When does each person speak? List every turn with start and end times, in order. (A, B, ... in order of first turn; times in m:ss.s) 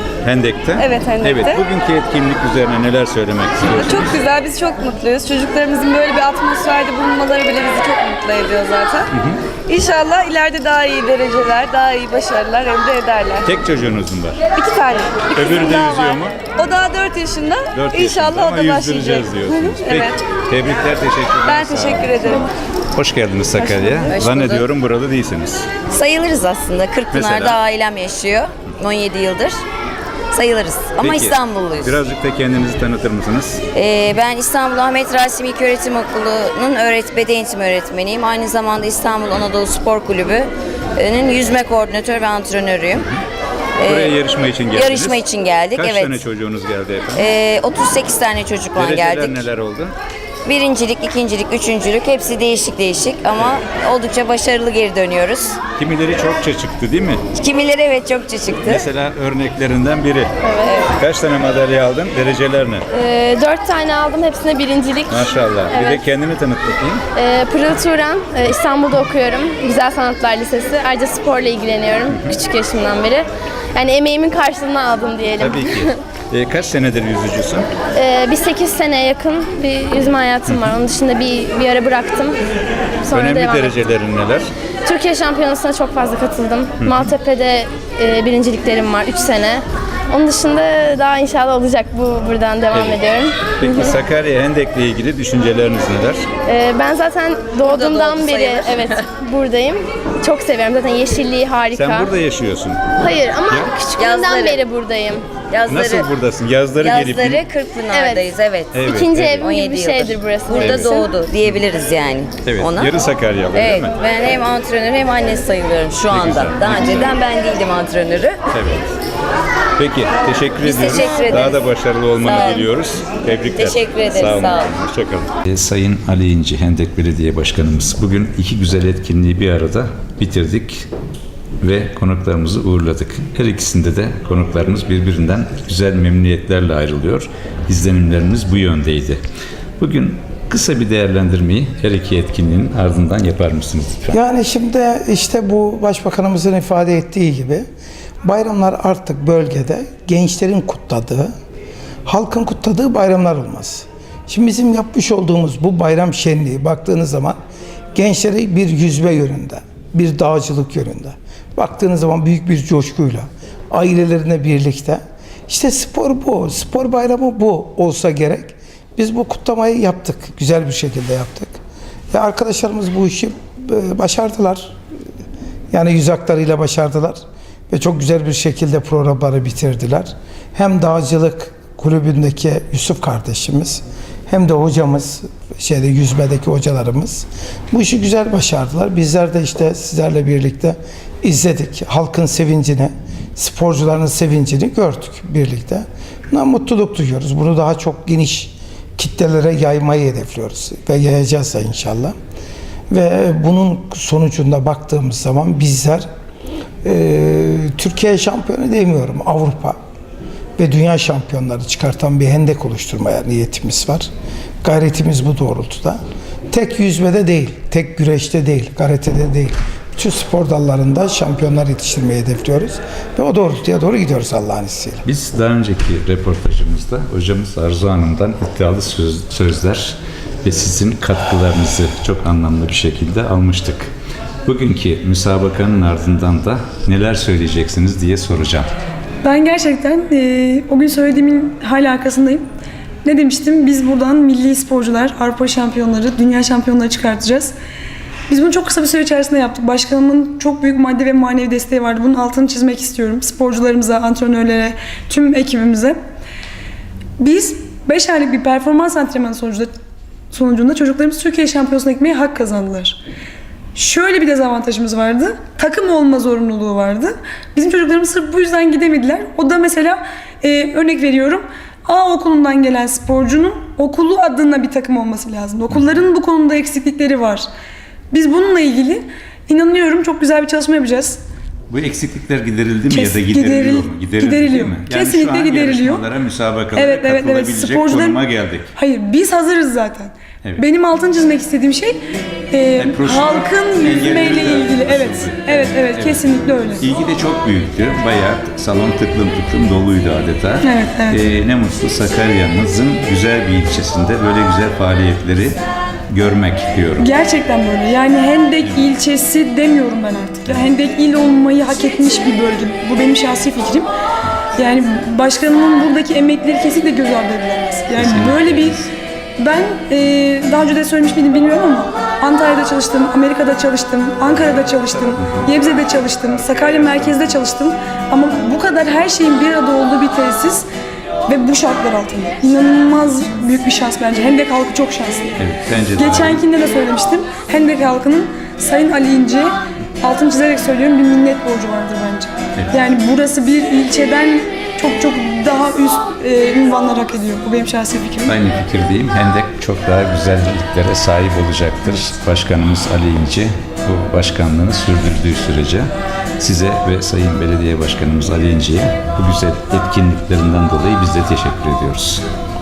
0:00.2-0:04.2 A
0:00.8-0:01.6 B
0:03.7-0:09.1 B
0:09.1-0:09.4 A
0:09.7-0:13.5 B
0:13.4-0:14.4 A
0:14.6-0:20.2 B
0:15.3-0:16.4 A
0:17.7-0:25.7 A
0:21.4-0:22.5 B
0:23.6-0:24.0 B
0:24.1-0:24.7 C
0:25.9-0:29.6 C
0:27.1-0:27.6 A
0:30.3-0:32.0 C
0:31.0-0:33.6 A
0:33.7-0:43.1 C
0:43.8-0:44.2 C
0:43.8-0:47.3 A
0:44.7-0:46.2 C
0:47.1-0:49.5 C
0:48.8-0:49.9 A
0:50.4-0:55.6 C
0:55.8-0:57.2 A
0:57.4-0:58.9 C
0:58.7-1:00.3 A
1:00.4-1:00.8 D
1:00.6-1:01.0 C
1:01.0-1:02.8 A
1:02.9-1:06.1 D
1:05.1-1:07.0 A
1:07.2-1:16.0 D
1:15.4-1:17.7 A
1:18.0-1:22.4 D
1:23.0-1:23.8 D
1:23.1-1:24.5 A
1:24.8-1:34.0 D
1:26.8-1:27.1 A
1:32.7-1:33.0 A
1:33.6-1:36.3 A
1:36.5-1:42.1 D
1:37.6-1:39.1 C
1:41.7-1:42.8 A
1:43.0-1:45.4 D
1:44.0-1:44.6 C
1:45.5-1:46.1 C
1:45.7-1:47.4 A
1:46.8-1:52.9 C
1:47.9-1:48.3 D
1:48.7-1:49.4 A
1:48.8-1:51.1 D
1:50.5-1:51.0 A
1:52.4-1:54.0 A
1:53.5-1:58.4 C
1:56.1-1:57.2 A
1:58.5-1:58.9 A
1:59.8-2:10.9 A
2:00.6-2:01.6 C
2:02.2-2:02.7 C
2:03.6-2:04.7 C
2:11.6-2:19.2 A
2:19.8-2:24.2 A
2:24.1-2:27.6 E
2:28.2-2:31.3 E
2:32.1-2:37.4 E
2:37.9-2:51.6 E
2:52.1-2:54.8 E
2:55.7-3:22.2 E
3:22.9-3:26.1 E
3:26.8-3:29.8 E
3:30.6-3:34.1 E
3:34.6-3:36.0 E
3:36.5-3:45.0 E
3:45.0-3:53.9 A
3:54.4-3:58.7 A
3:59.2-4:02.4 F
4:03.0-4:07.5 F
4:08.3-4:16.0 F
4:17.2-4:19.7 F
4:20.3-4:23.0 F
4:23.8-4:37.5 F
4:38.1-4:41.2 F
4:41.7-4:48.7 A
4:42.9-4:46.0 F
4:46.7-4:48.2 F
4:48.8-4:52.0 F
4:52.5-4:56.9 F
4:52.8-5:05.6 A
5:00.6-5:01.2 F
5:06.1-5:07.1 A
5:07.0-5:13.9 F
5:14.6-5:18.8 F
5:18.0-5:18.9 A
5:19.4-5:30.7 F
5:24.3-5:27.3 A
5:31.3-5:35.4 F
5:35.4-5:36.4 A
5:36.0-5:48.4 F
5:48.3-6:02.2 A